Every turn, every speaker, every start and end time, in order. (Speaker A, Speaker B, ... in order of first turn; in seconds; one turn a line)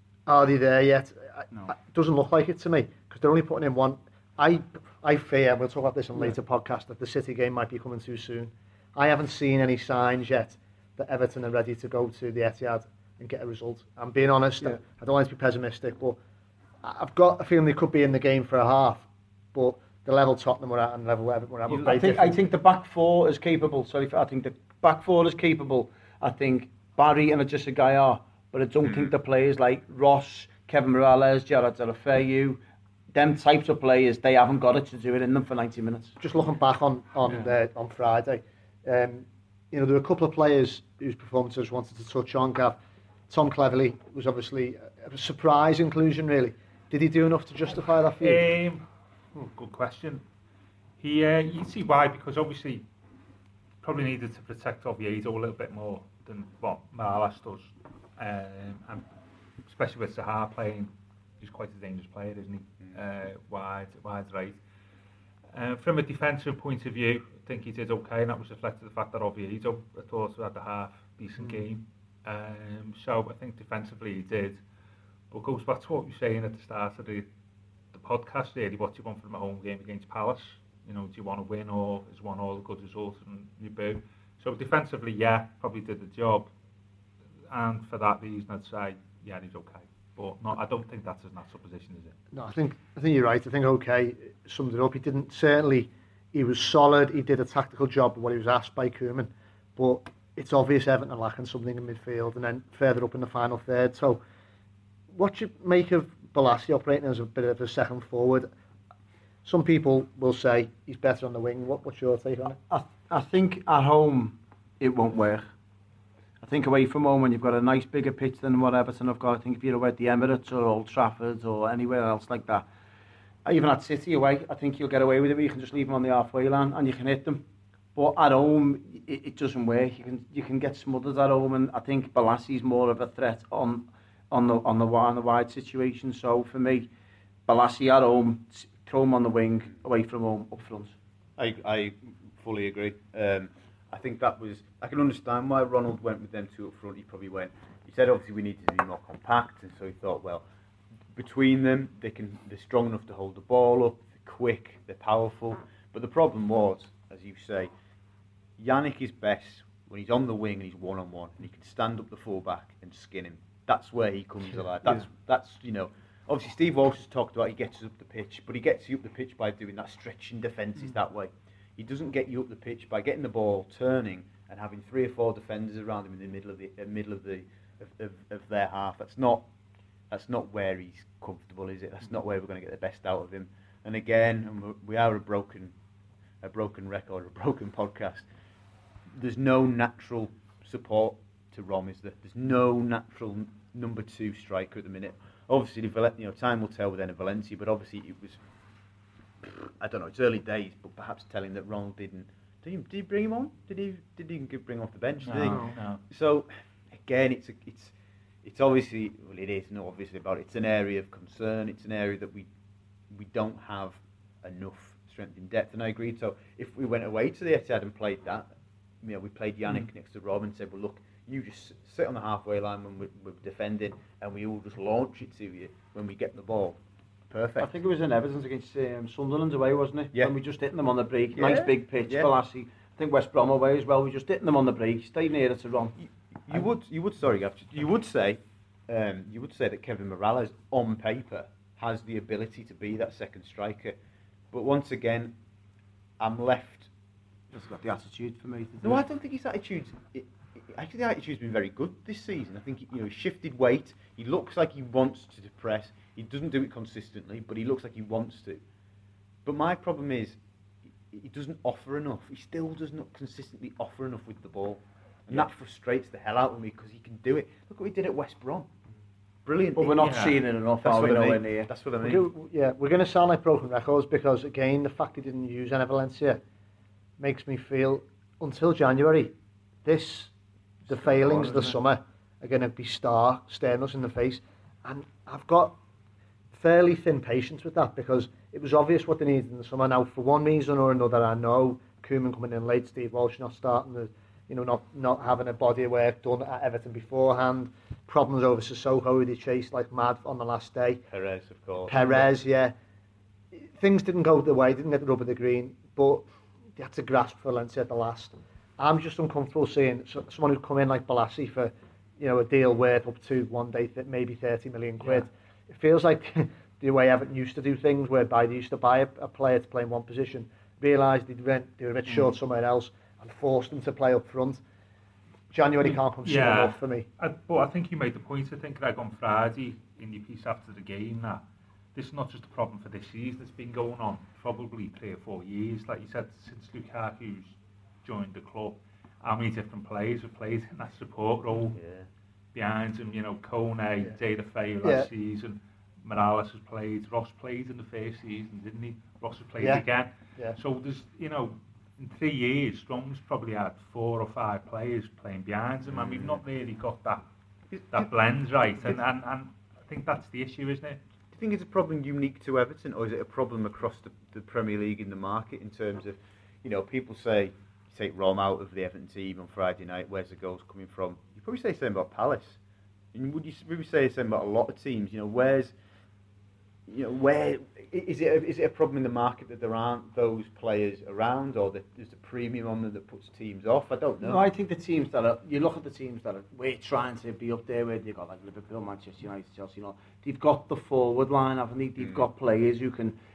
Speaker A: 0.3-16.2
Speaker A: 16.8-22.4
Speaker B: 21.7-32.6
Speaker C: 28.8-29.1
Speaker B: 33.1-36.2
Speaker A: 36.2-42.8
Speaker A: 43.3-48.5
Speaker D: 48.2-48.8
Speaker D: 49.3-50.2
Speaker D: 51.0-52.9
Speaker D: 53.8-59.0
Speaker D: 59.7-64.6
Speaker D: 65.5-74.6
Speaker D: 75.3-77.3
Speaker D: 77.9-86.5
Speaker D: 87.5-92.2
Speaker A: 92.3-104.2
Speaker A: 105.1-108.5
Speaker A: 109.4-112.6
Speaker B: 112.7-115.5
Speaker B: 116.4-122.7
Speaker B: 123.5-127.4
Speaker B: 128.0-136.9
Speaker B: 137.5-140.9
Speaker C: 141.4-150.4
Speaker C: 151.1-157.7
Speaker C: 158.6-179.5
Speaker C: 180.1-185.7
Speaker C: 186.4-188.3
Speaker C: 189.1-198.4
Speaker C: 199.4-207.9
Speaker D: 205.2-206.0
Speaker C: 208.4-212.5
Speaker C: 213.1-218.5
Speaker C: 219.0-226.8
Speaker C: 227.3-227.8
Speaker B: 227.6-236.0
Speaker C: 231.3-232.3
Speaker C: 236.5-244.0
Speaker C: 244.5-245.4
Speaker C: 246.2-246.9
Speaker B: 247.5-249.0
Speaker C: 248.8-258.6
Speaker C: 259.4-260.4
Speaker C: 261.1-268.7
Speaker C: 269.4-270.3
Speaker B: 269.8-271.7
Speaker D: 270.0-270.4
Speaker C: 270.8-272.3
Speaker A: 272.0-276.4
Speaker A: 277.2-279.3
Speaker A: 279.9-280.3
Speaker A: 280.9-285.8
Speaker B: 281.3-281.6
Speaker A: 286.5-301.0
Speaker C: 301.1-302.1
Speaker A: 301.8-302.7
Speaker A: 303.5-324.6
Speaker A: 325.5-327.1
Speaker D: 325.8-331.4
Speaker D: 331.9-341.8
Speaker C: 341.8-342.1
Speaker D: 342.5-357.2
Speaker A: 344.8-345.1
Speaker C: 355.9-356.4
Speaker C: 357.7-358.1
Speaker D: 357.9-361.0
Speaker C: 361.3-372.6
Speaker C: 373.1-375.7
Speaker C: 376.9-384.4
Speaker B: 384.2-393.1
Speaker C: 392.0-392.3